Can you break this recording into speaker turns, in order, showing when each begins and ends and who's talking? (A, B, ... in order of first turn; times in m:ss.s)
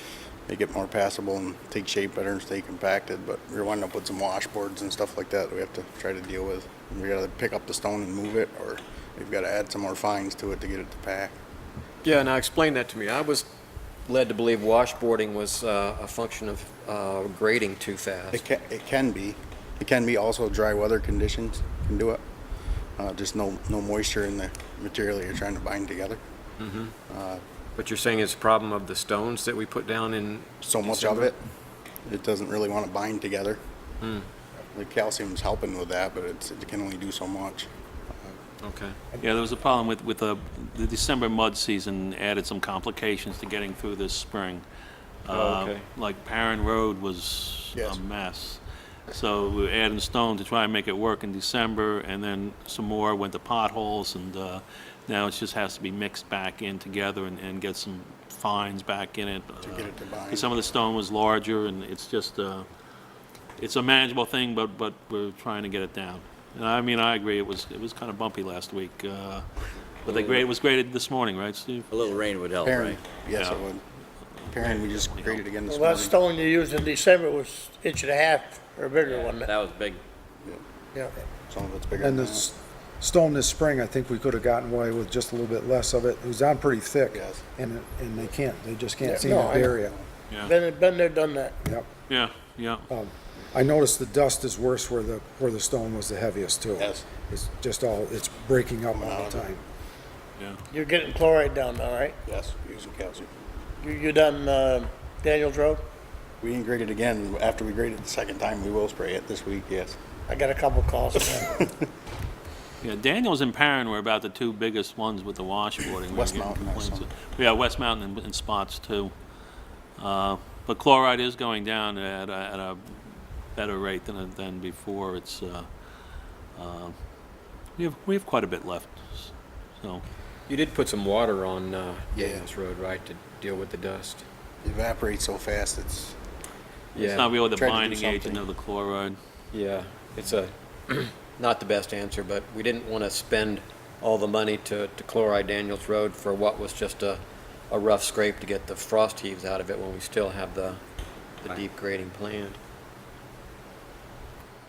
0:00.5-0:11.3 A
0:12.0-0:13.5 B
0:14.1-0:18.4 B
0:18.3-0:22.2 A
0:23.0-0:26.2 A
0:26.6-0:26.9 B
0:27.1-0:27.4 A
0:27.8-0:31.3 B
0:30.6-0:31.4 A
0:32.0-0:33.6 A
0:34.0-0:34.3 B
0:34.7-0:37.7 A
0:38.6-0:39.0 B
0:39.2-0:44.6 C
0:45.2-1:02.6 C
0:45.3-0:45.8 B
0:59.6-1:00.5 A
1:03.6-1:09.4 C
1:10.0-1:11.9 C
1:10.1-1:10.4 D
1:11.9-1:13.0 D
1:12.6-1:13.8 A
1:13.3-1:13.6 C
1:14.4-1:15.4 C
1:14.5-1:16.1 A
1:15.7-1:19.5 E
1:19.0-1:20.0 D
1:21.5-1:22.4 A
1:21.9-1:30.0 F
1:27.1-1:27.4 A
1:29.1-1:29.7 E
1:30.4-1:31.5 E
1:31.6-1:31.9 F
1:32.1-1:32.8 C
1:32.9-1:39.6 F
1:38.9-1:39.5 A
1:40.7-1:42.1 E
1:42.2-1:43.3 A
1:43.8-1:45.8 E
1:46.4-1:50.0 A
1:50.3-1:51.6 E
1:52.8-1:59.1 C
1:56.1-1:57.1 A
2:00.0-2:03.0 C
2:03.5-2:05.7 C
2:06.6-2:06.9 C
2:07.8-2:10.0 C
2:10.5-2:14.2 B
2:12.2-2:12.4 A
2:14.6-2:16.1 A
2:16.9-2:17.4 B
2:17.0-2:19.2 C
2:17.4-2:18.4 A
2:19.5-2:30.8 B
2:31.4-2:32.6 B